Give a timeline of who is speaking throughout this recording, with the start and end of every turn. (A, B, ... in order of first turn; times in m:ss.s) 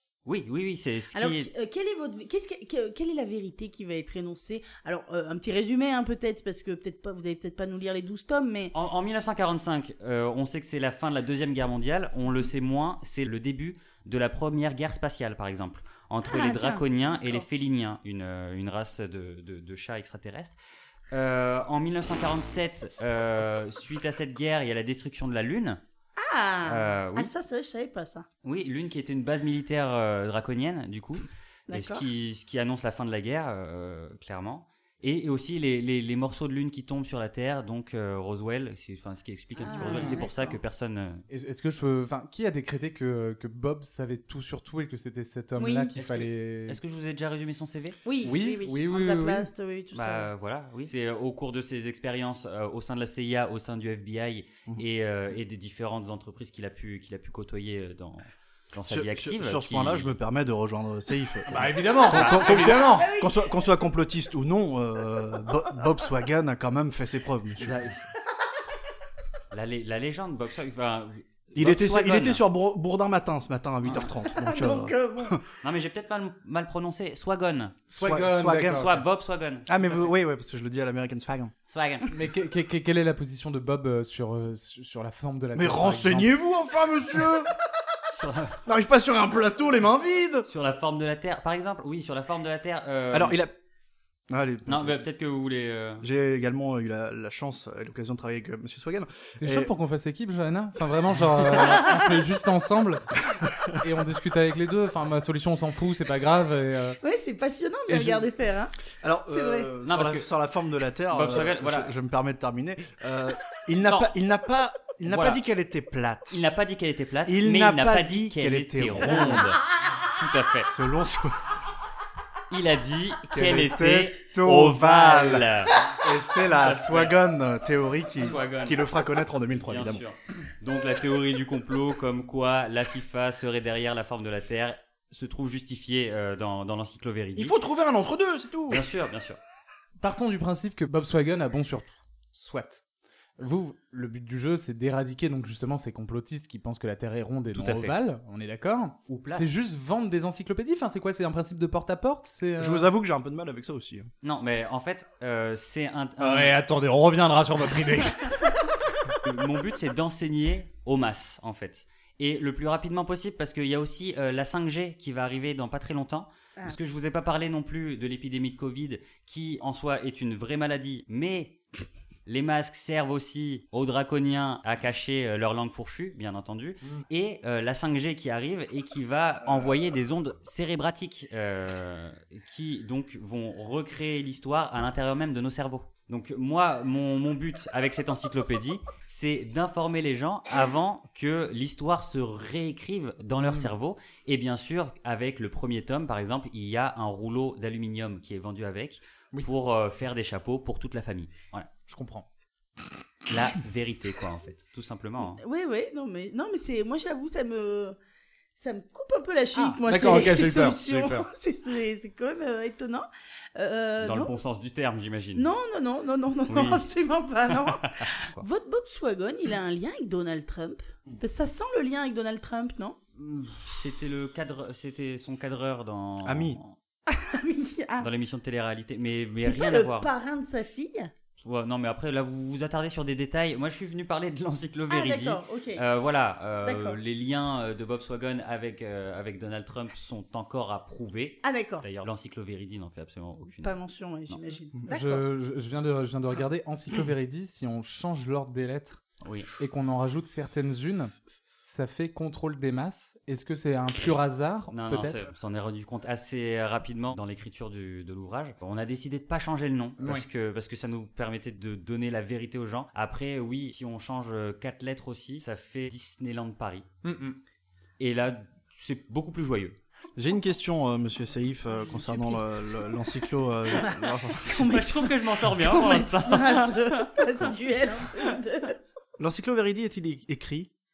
0:00.3-0:01.5 A
0:01.1-0:08.7 B
0:08.7-0:20.6 A
0:16.3-0:17.4 B
0:21.1-0:25.8 A
0:26.2-0:28.3 B
0:26.7-0:27.3 A
0:28.4-0:41.2 A
0:31.7-0:32.0 B
0:39.6-0:40.6 B
0:39.8-0:40.2 C
0:41.3-0:46.8 C
0:45.6-0:45.9 B
0:46.0-0:48.0 A
0:48.0-0:50.3 B
0:48.2-0:49.5 C
0:49.9-1:00.2 A
0:58.9-1:07.9 D
1:01.5-1:03.1 C
1:02.1-1:02.7 A
1:02.7-1:03.5 B
1:07.6-1:08.0 A
1:09.5-1:12.4 A
1:11.6-1:15.4 D
1:13.9-1:15.4 B
1:15.6-1:17.8 A
1:17.9-1:19.0 C
1:18.0-1:18.9 D
1:18.6-1:20.2 A
1:19.7-1:21.5 D
1:21.7-1:22.1 A
1:22.1-1:26.4 C
1:25.6-1:27.5 D
1:28.1-1:28.6 A
1:28.7-1:30.5 D
1:30.5-1:33.4 A
1:33.1-1:33.6 D
1:34.3-1:35.0 D
1:34.7-1:36.0 A
1:36.0-1:39.7 D
1:39.4-1:43.1 C
1:43.8-1:47.0 C
1:47.0-1:48.7 B
1:47.9-1:48.3 C
1:49.0-1:56.4 D
1:49.3-1:49.7 B
1:49.8-1:50.3 A
1:51.1-1:51.9 A
1:53.8-1:54.1 A
1:55.1-1:55.4 A
1:56.3-2:00.7 A
1:57.3-1:59.5 D
2:00.7-2:01.4 D
2:02.5-2:07.2 A
2:03.3-2:10.0 D
2:08.2-2:08.9 A
2:09.7-2:17.6 A
2:17.4-2:18.8 D
2:18.7-2:19.4 A
2:20.0-2:22.8 C
2:23.4-2:32.9 C
2:27.5-2:28.0 A
2:29.1-2:29.5 A
2:32.6-2:34.1 D
2:34.2-2:36.6 A
2:36.2-2:38.7 C
2:39.2-2:51.6 A
2:52.3-3:21.7 A
3:13.4-3:13.7 C
3:21.9-3:22.3 C
3:23.3-3:25.4 A
3:25.2-3:28.0 B
3:28.6-3:34.3 B
3:29.6-3:31.3 C
3:34.0-3:35.5 A
3:35.4-3:43.0 B
3:36.5-3:36.9 A
3:37.5-3:38.4 A
3:43.2-3:46.8 A
3:46.2-3:46.6 D
3:47.1-3:48.1 B
3:48.0-3:50.1 A
3:49.4-3:51.1 B
3:51.4-4:03.8 A
3:54.9-3:55.8 B
3:56.6-3:57.0 B
4:01.4-4:01.8 B
4:03.6-4:05.2 B
4:04.9-4:09.0 C
4:09.2-4:09.5 A
4:09.6-4:15.2 C
4:14.7-4:26.9 A
4:20.0-4:20.2 C
4:27.0-4:27.4 C
4:28.0-4:29.8 A
4:30.2-4:34.6 D
4:31.8-4:32.4 B
4:33.8-4:38.8 B
4:34.6-4:37.5 A
4:39.2-4:40.7 D